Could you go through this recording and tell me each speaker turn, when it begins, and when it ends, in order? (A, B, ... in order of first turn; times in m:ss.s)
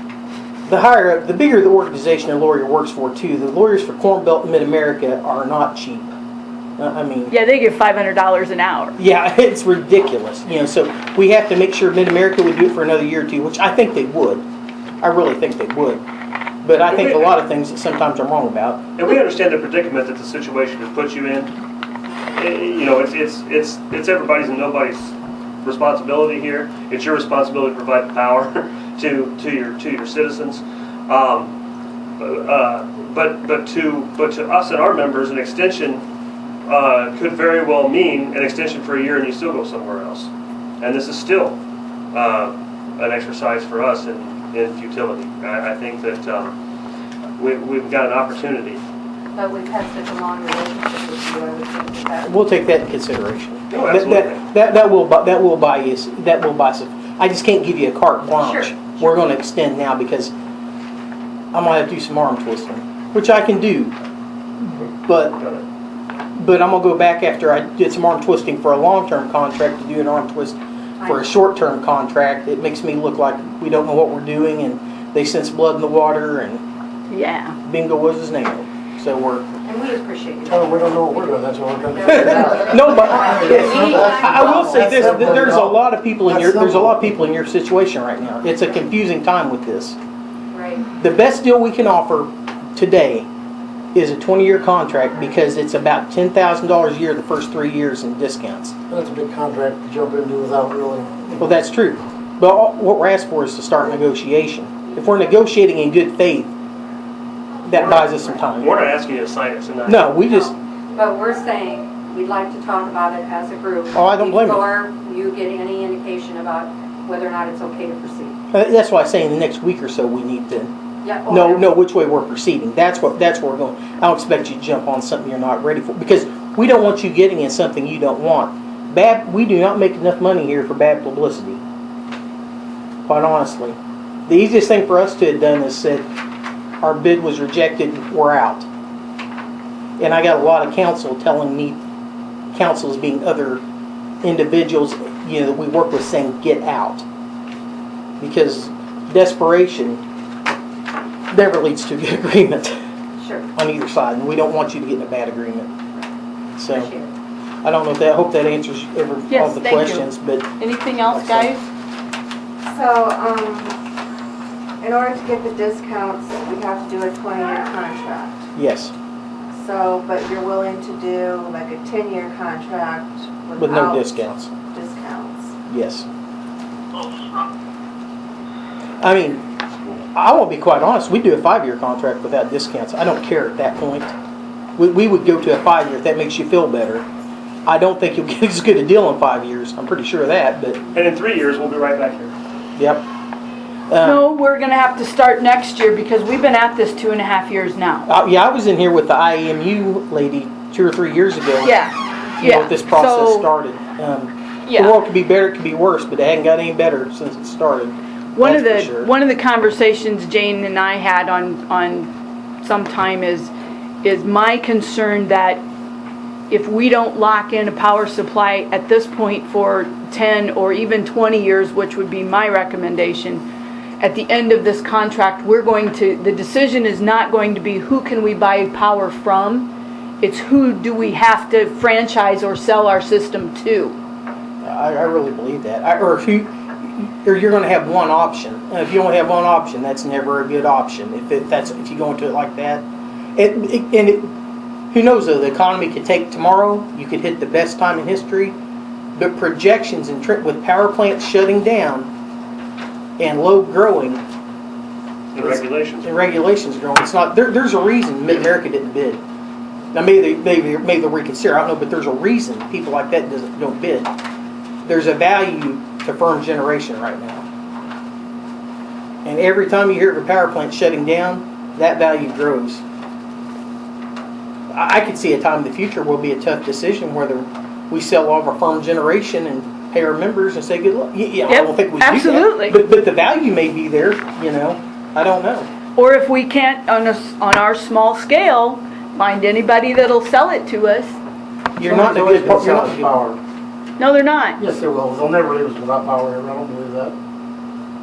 0:00.7-0:06.1 A
0:06.8-0:07.3 A
0:07.3-0:09.0 B
0:09.0-0:14.4 A
0:15.0-0:16.0 A
0:16.6-0:18.8 A
0:16.8-0:17.3 C
0:19.0-0:21.5 C
0:22.4-0:31.5 C
0:32.2-0:36.0 C
0:36.7-0:40.3 C
0:40.8-0:41.6 C
0:42.1-0:46.5 C
0:47.4-0:48.8 C
0:49.4-0:52.4 D
0:52.2-1:00.3 A
0:53.7-0:54.4 C
0:58.3-0:59.1 D
1:01.5-1:03.9 A
1:04.7-1:05.4 A
1:05.4-1:05.6 C
1:06.4-1:16.6 A
1:11.0-1:11.4 D
1:17.1-1:17.6 B
1:17.7-1:19.5 A
1:19.6-1:25.2 D
1:20.5-1:27.2 E
1:22.1-1:30.0 A
1:30.5-1:30.8 D
1:31.0-1:33.3 A
1:34.0-1:38.8 A
1:38.9-1:41.4 E
1:41.4-1:46.5 A
1:47.6-1:48.8 A
1:47.8-1:50.2 C
1:49.9-1:50.5 A
1:51.0-1:58.4 D
1:53.9-1:54.7 A
1:58.5-2:00.7 A
2:01.0-2:01.7 D
2:01.3-2:11.6 A
2:13.1-2:16.1 A
2:16.8-2:18.7 A
2:20.0-2:21.8 A
2:22.5-2:23.6 A
2:24.2-2:27.0 A
2:28.2-2:30.0 A
2:31.3-2:32.8 A
2:33.2-2:33.5 D
2:33.6-2:35.7 A
2:36.6-2:36.9 A
2:36.7-2:37.1 D
2:37.6-2:41.5 A
2:39.3-2:41.7 B
2:42.6-2:43.8 F
2:44.8-2:48.5 F
2:48.6-2:48.9 A
2:49.5-2:55.6 F
2:53.6-2:54.5 A
2:55.7-2:56.1 A
2:59.0-2:59.4 A
3:00.0-3:04.1 A
3:04.8-3:07.1 A
3:07.7-3:10.8 A
3:10.9-3:12.3 C
3:12.8-3:13.0 A
3:13.9-3:14.2 A
3:14.0-3:18.1 B
3:18.1-3:21.8 A
3:21.6-3:23.5 B
3:22.4-3:29.1 A
3:24.7-3:25.0 B
3:28.4-3:32.1 B
3:32.6-3:33.5 B
3:34.0-3:35.6 B
3:36.5-3:43.4 B
3:44.0-3:54.0 B
3:54.6-4:02.8 A
4:03.4-4:04.3 A
4:04.9-4:08.6 A
4:09.2-4:12.1 A
4:13.2-4:14.2 A
4:15.3-4:16.1 C
4:15.4-4:19.2 A
4:19.9-4:24.1 A
4:24.9-4:27.4 A
4:29.2-4:32.8 A
4:34.7-4:45.7 A
4:41.5-4:42.8 B
4:46.0-4:51.2 B
4:51.8-4:53.2 A
4:51.8-4:53.4 E
4:54.0-4:54.6 B
4:54.6-4:57.2 E